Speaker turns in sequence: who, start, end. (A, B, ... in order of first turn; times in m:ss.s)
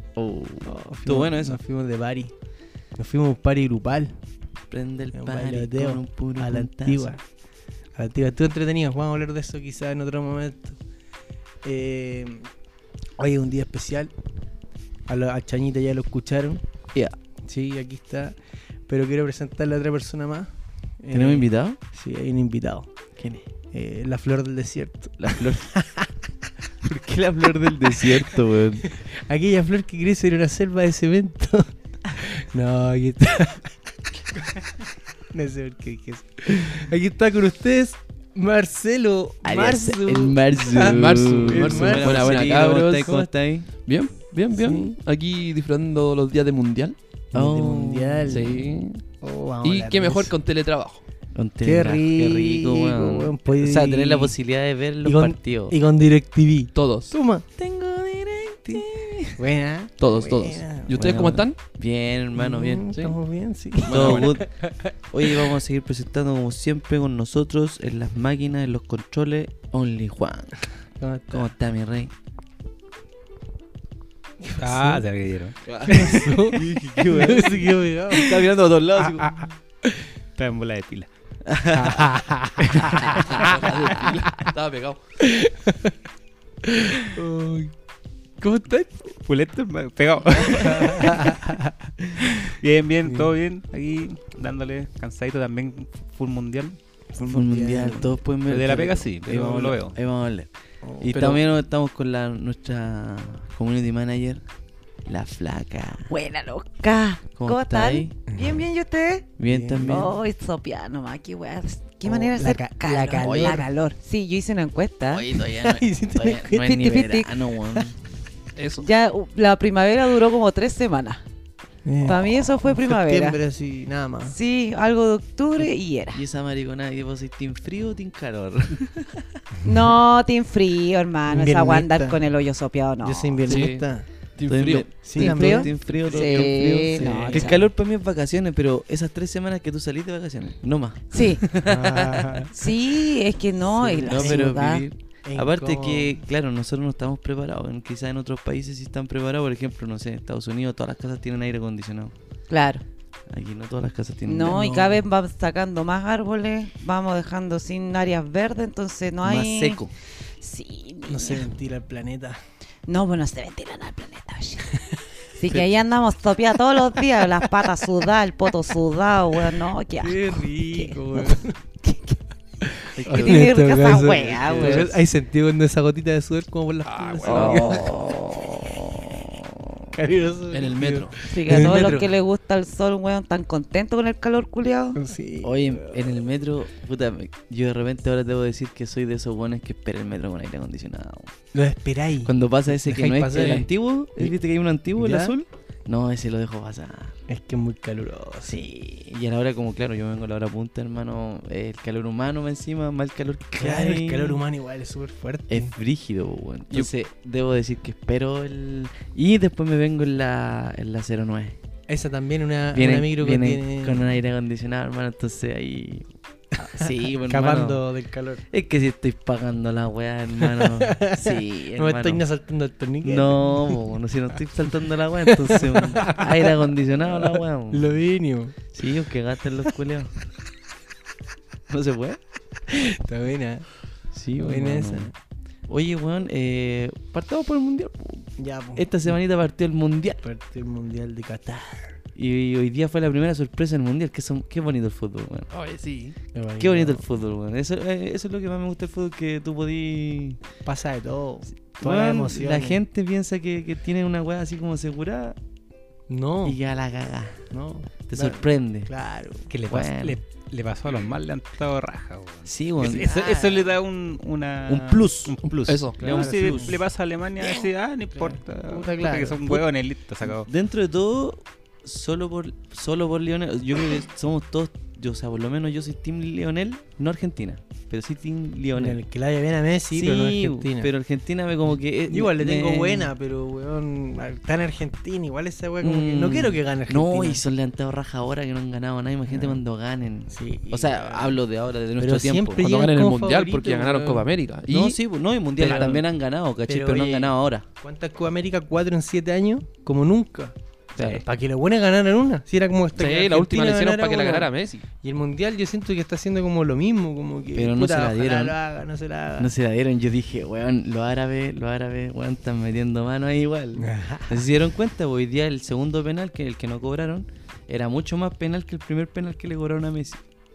0:00.2-0:01.6 A
0:00.6-0:02.3 B
0:03.0-0:04.1 B
0:04.7-0:07.1 A
0:05.1-0:07.2 B
0:08.0-0:10.8 B
0:11.6-0:12.5 B
0:13.2-0:14.1 B
0:15.1-0:16.6 B
0:17.4-0:22.9 B
0:21.1-0:21.8 A
0:23.2-0:23.4 A
0:23.7-0:26.1 B
0:25.2-0:25.7 A
0:26.8-0:29.0 A
0:27.6-0:33.7 B
0:35.3-0:42.4 B
0:39.4-0:43.7 A
0:40.8-0:43.3 C
0:43.8-0:47.0 C
0:44.6-0:45.0 B
0:47.3-0:48.6 A
0:47.3-0:50.3 B
0:48.3-0:49.0 C
0:49.6-0:51.0 C
0:51.4-0:55.8 A
0:51.6-0:54.4 B
0:55.0-1:01.0 B
0:56.8-0:57.1 C
0:58.7-0:59.4 A
1:00.0-1:01.6 C
1:00.9-1:03.0 A
1:02.4-1:05.5 B
1:03.8-1:04.3 C
1:03.8-1:04.5 A
1:05.0-1:10.7 A
1:11.0-1:11.5 B
1:11.3-1:12.1 A
1:14.4-1:15.0 B
1:14.6-1:16.2 D
1:15.7-1:16.1 C
1:15.7-1:19.5 A
1:15.9-1:18.5 B
1:19.2-1:19.5 B
1:20.4-1:21.1 D
1:21.4-1:24.5 A
1:21.7-1:23.4 B
1:23.4-1:25.0 C
1:24.1-1:24.5 B
1:25.2-1:26.0 B
1:26.6-1:27.7 B
1:28.4-1:29.2 B
1:29.2-1:31.4 D
1:30.5-1:31.9 B
1:32.2-1:36.8 D
1:37.1-1:38.2 B
1:37.2-1:40.5 A
1:38.5-1:40.0 D
1:40.8-1:41.1 B
1:41.0-1:44.4 A
1:41.1-1:41.4 C
1:45.1-1:46.1 A
1:46.1-1:55.4 E
1:47.4-1:48.1 A
1:49.4-1:50.1 A
1:49.5-1:50.2 B
1:52.0-1:53.7 B
1:53.2-1:53.6 A
1:55.1-1:58.0 A
1:55.5-1:56.9 B
1:56.5-1:57.3 E
1:58.6-1:58.9 C
1:58.8-2:01.2 E
2:01.8-2:04.4 B
2:02.0-2:03.4 E
2:04.2-2:06.2 E
2:06.1-2:09.4 A
2:09.6-2:13.5 E
2:11.3-2:12.2 B
2:13.0-2:14.1 B
2:13.5-2:15.1 C
2:14.5-2:22.6 A
2:15.0-2:15.8 B
2:15.2-2:17.6 E
2:15.9-2:17.6 C
2:21.1-2:21.5 E
2:21.6-2:22.5 B
2:22.5-2:24.9 E
2:23.8-2:32.1 A
2:23.9-2:24.5 B
2:25.2-2:26.1 B
2:32.5-2:32.8 E
2:33.3-2:35.0 A
2:34.2-2:39.8 E
2:39.2-2:39.9 A
2:40.4-2:41.4 E
2:41.1-2:42.4 B
2:42.9-2:44.7 E
2:45.3-2:52.2 E
2:50.0-2:51.6 B
2:52.6-2:58.5 B
2:53.0-2:53.5 A
2:53.1-2:54.9 E
2:54.2-2:54.9 A
2:56.8-2:57.9 C
2:57.2-2:59.8 A
2:59.9-3:02.1 B
3:00.5-3:01.9 C
3:01.3-3:05.0 E
3:05.0-3:06.1 B
3:05.4-3:11.3 A
3:11.5-3:14.4 B
3:12.2-3:17.2 A
3:15.0-3:15.3 B
3:17.3-3:18.6 B
3:18.4-3:24.4 A
3:23.5-3:25.7 B
3:25.5-3:31.6 A
3:31.9-3:34.1 B
3:32.7-3:37.8 A
3:36.6-3:38.4 B
3:38.5-3:42.2 A
3:40.4-3:43.8 B
3:43.0-3:48.0 A
3:45.3-3:48.6 B
3:48.7-3:50.1 A
3:51.7-3:52.2 A
3:52.7-3:53.7 B
3:54.1-3:55.1 A
3:54.4-3:55.1 B
3:55.7-4:00.2 A
3:58.4-3:58.9 B
4:00.2-4:02.0 B
4:02.2-4:05.5 A
4:05.5-4:06.2 C
4:06.3-4:07.0 B
4:06.6-4:10.4 A
4:10.6-4:12.8 B
4:11.8-4:15.4 A
4:16.1-4:16.6 B
4:16.4-4:17.5 A
4:17.5-4:19.5 B
4:18.1-4:18.9 A
4:19.5-4:30.5 D
4:19.7-4:20.2 A
4:22.5-4:23.3 A
4:22.9-4:23.8 B
4:24.7-4:25.4 A
4:25.7-4:26.0 C
4:26.0-4:26.8 B
4:26.0-4:26.8 A
4:27.4-4:29.6 B
4:30.2-4:39.0 A
4:38.7-4:40.9 B
4:39.9-4:43.1 A
4:42.1-4:47.4 B
4:45.8-4:52.7 A
4:49.3-4:49.6 B
4:50.3-4:51.4 B
4:52.0-4:54.3 B
4:52.6-4:55.0 C
4:54.7-4:57.7 A
4:55.6-4:56.0 C
4:55.6-4:56.0 B
4:56.7-5:04.5 B
5:01.0-5:01.2 A
5:03.0-5:04.9 C
5:05.0-5:09.5 B
5:07.5-5:08.6 A
5:09.4-5:20.2 A
5:13.8-5:14.5 B